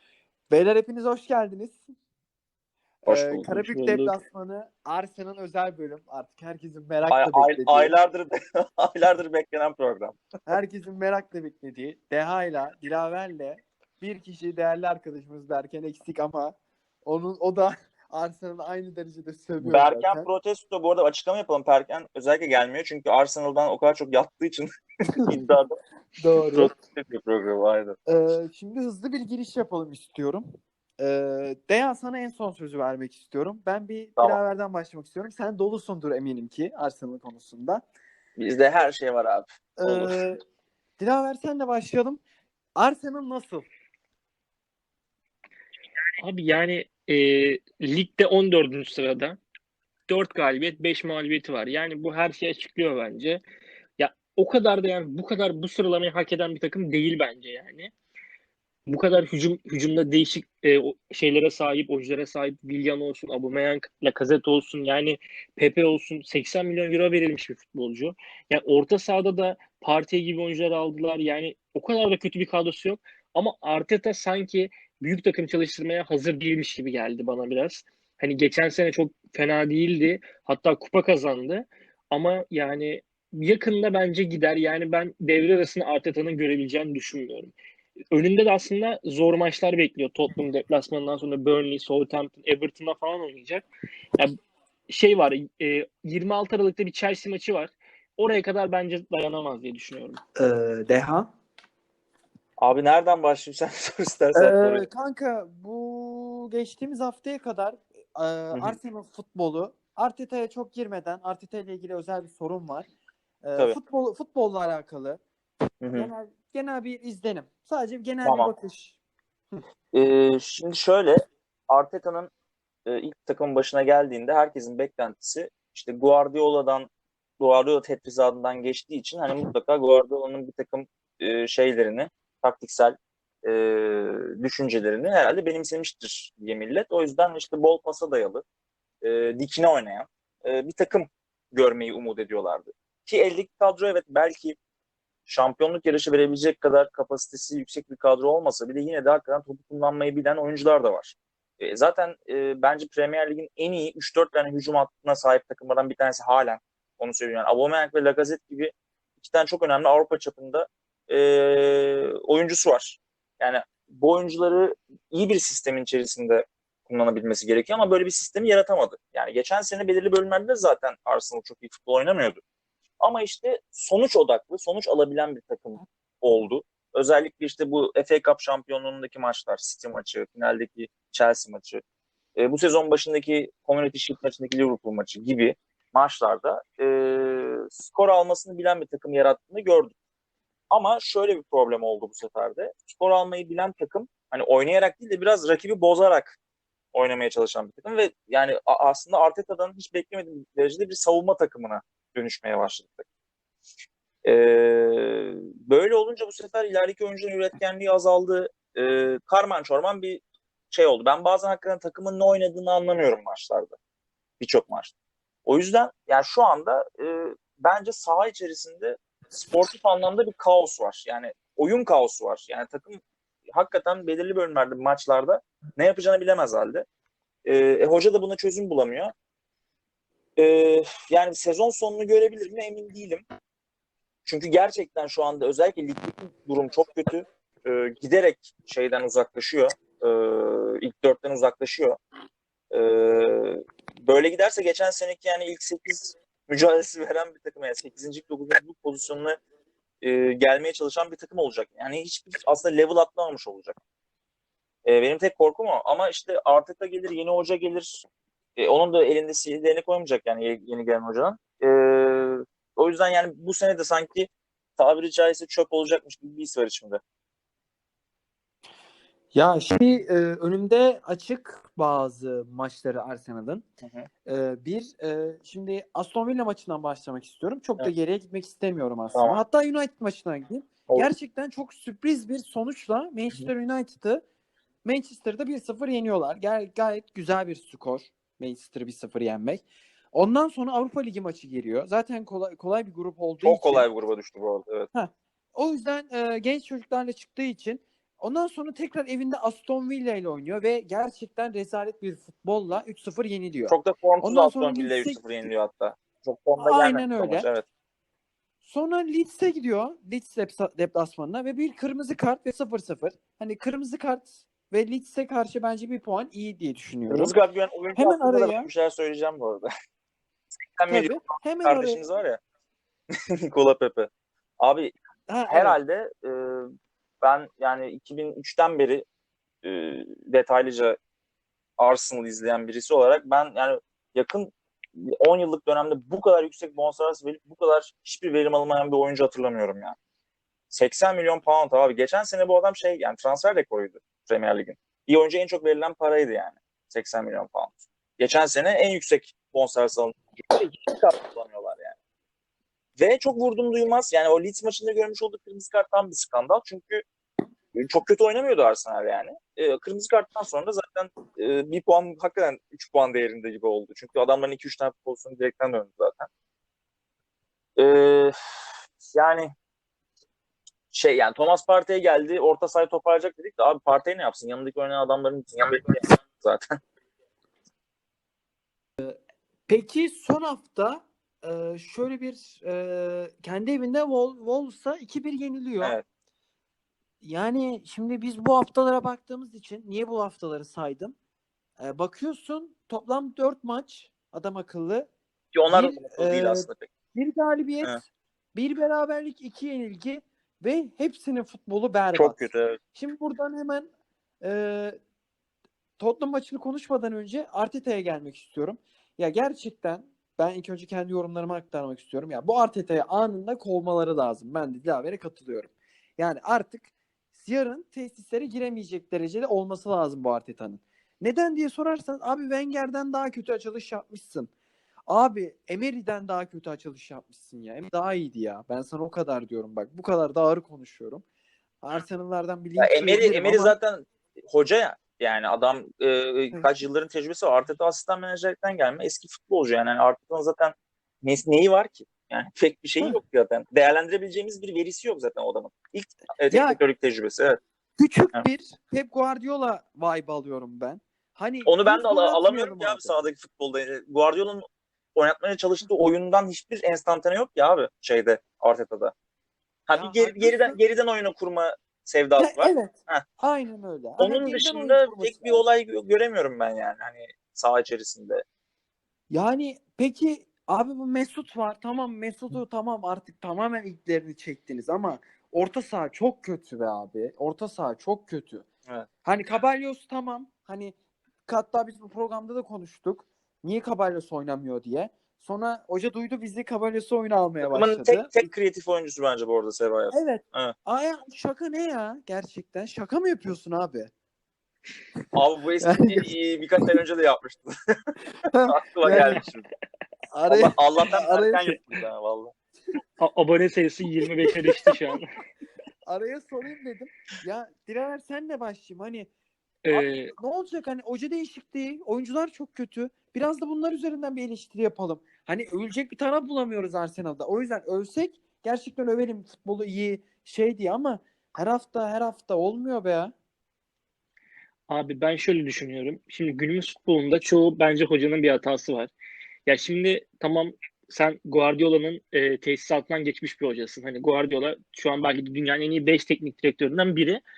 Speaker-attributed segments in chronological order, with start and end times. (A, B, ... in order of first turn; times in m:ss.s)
0:00.5-0:01.9 A
0:03.0-0:07.9 A
0:03.0-0:04.1 B
0:07.1-0:10.2 C
0:10.5-0:20.3 A
0:19.6-0:24.7 C
0:25.2-0:25.6 A
0:25.3-0:25.8 C
0:26.2-0:26.7 A
0:26.5-0:28.0 C
0:28.1-0:30.4 A
0:31.0-0:37.8 A
0:38.4-0:40.2 C
0:39.8-0:40.4 A
0:41.0-0:42.2 A
0:42.8-0:43.7 A
0:46.2-0:49.4 B
0:50.1-0:53.4 B
0:54.0-0:57.9 B
0:58.9-1:27.5 B
1:28.1-1:33.6 B
1:34.9-1:40.2 B
1:40.4-1:41.3 A
1:42.6-1:44.9 C
1:44.3-1:52.9 A
1:48.5-1:48.8 C
1:53.4-1:55.2 A
1:55.8-1:56.1 C
1:55.9-1:59.0 A
1:58.2-1:58.5 C
1:59.9-2:01.2 C
2:01.7-2:02.3 C
2:02.8-2:18.4 C
2:19.0-2:24.6 C
2:25.2-2:52.4 C
2:53.0-3:01.8 C
3:02.4-3:09.9 C
3:10.7-3:16.4 C
3:16.9-3:23.1 C
3:24.2-3:33.8 C
3:34.4-3:34.9 C
3:35.4-3:43.0 C
3:43.5-3:46.8 C
3:47.4-3:49.1 C
3:50.4-3:53.2 C
3:54.2-4:02.0 C
4:02.7-4:09.4 C
4:10.0-4:13.8 C
4:14.8-4:18.0 C
4:18.6-4:27.0 C
4:29.3-4:33.6 A
4:33.8-4:34.1 C
4:34.2-4:44.2 A
4:39.1-4:39.4 C
4:44.8-4:53.9 A
4:53.4-4:54.9 C
4:54.9-5:05.5 A
5:03.7-5:07.6 C
5:06.6-5:07.5 A
5:08.6-5:17.4 A
5:17.1-5:19.7 C
5:18.0-5:18.7 A
5:20.7-5:22.4 C
5:20.9-5:22.0 A
5:23.4-5:24.9 C
5:25.3-5:25.8 A
5:25.5-5:26.7 C
5:27.2-5:29.0 C
5:29.6-5:31.0 C
5:31.8-5:40.0 C
5:40.7-5:52.0 C
5:53.0-5:57.0 C
5:57.7-6:06.3 C
6:07.8-6:08.3 C
6:09.1-6:09.5 C
6:10.9-6:16.8 C
6:19.0-6:26.0 A
6:27.2-6:31.1 A
6:31.8-6:35.1 A
6:35.5-6:36.9 C
6:35.6-6:38.0 A
6:38.5-6:42.4 A
6:42.1-6:42.8 C
6:42.9-6:43.9 A
6:44.4-6:45.0 A
6:46.0-7:04.5 A
7:05.1-7:11.2 A
7:11.8-7:13.8 A
7:12.8-7:27.6 C
7:26.5-7:26.8 A
7:28.0-7:33.2 A
7:31.6-7:34.6 C
7:35.2-7:39.1 C
7:39.9-7:43.2 C
7:39.9-7:40.8 A
7:42.4-7:45.7 A
7:44.2-7:48.4 C
7:49.3-7:58.6 A
7:59.2-8:08.3 A
8:07.6-8:10.7 C
8:10.1-8:14.1 A
8:15.3-8:18.1 C
8:15.8-8:16.3 A
8:18.5-8:19.4 A
8:18.6-8:19.7 C
8:20.3-8:21.7 A
8:20.5-8:22.5 C
8:23.2-8:25.3 B
8:26.0-8:29.3 A
8:29.8-8:30.3 B
8:29.9-8:43.3 A
8:44.9-8:49.1 B
8:49.7-8:57.4 B